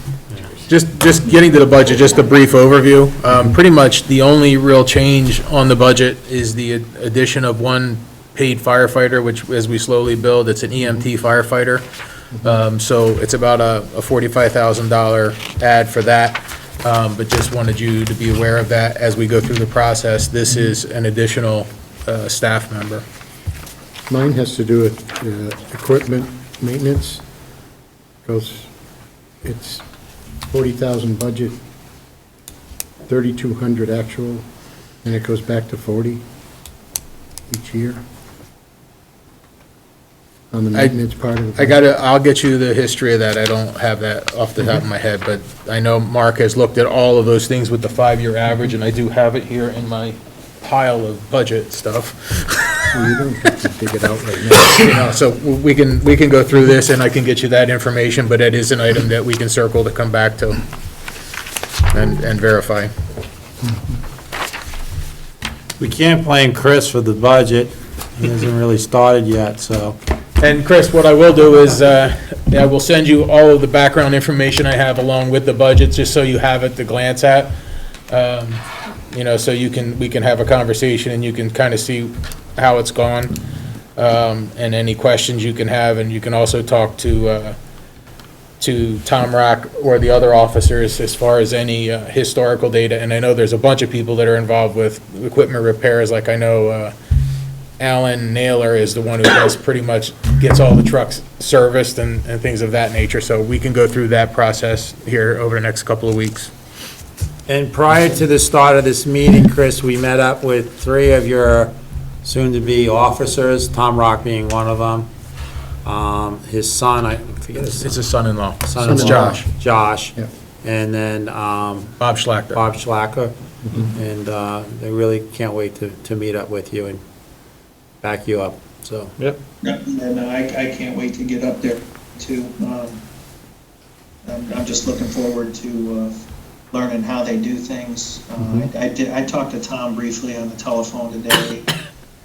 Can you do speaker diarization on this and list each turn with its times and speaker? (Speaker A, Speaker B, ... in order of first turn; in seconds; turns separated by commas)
Speaker A: 0.7-11.8, Speaker A: 12.4-23.0, Speaker B: 24.1-27.2, Speaker B: 28.2-28.7, Speaker B: 29.4-29.8, Speaker B: 30.5-31.6, Speaker B: 33.0-34.4, Speaker B: 35.0-36.2, Speaker B: 37.5-38.0, Speaker B: 40.5-41.8, Speaker A: 41.5-53.1, Speaker B: 52.9-55.0, Speaker A: 54.6-60.6, Speaker A: 61.9-62.9, Speaker C: 65.8-70.0, Speaker A: 70.4-77.5, Speaker A: 78.1-83.3, Speaker A: 84.0-87.6, Speaker A: 88.6-96.9, Speaker A: 97.8-106.5, Speaker C: 107.5-111.7, Speaker C: 112.2-115.1, Speaker C: 115.8-118.0, Speaker A: 117.8-119.5, Speaker C: 118.6-121.9, Speaker B: 118.8-119.4, Speaker A: 122.0-122.6, Speaker C: 122.5-127.0, Speaker C: 128.0-129.1, Speaker D: 129.6-133.0, Speaker D: 134.2-136.1, Speaker D: 136.7-141.7, Speaker B: 138.4-138.7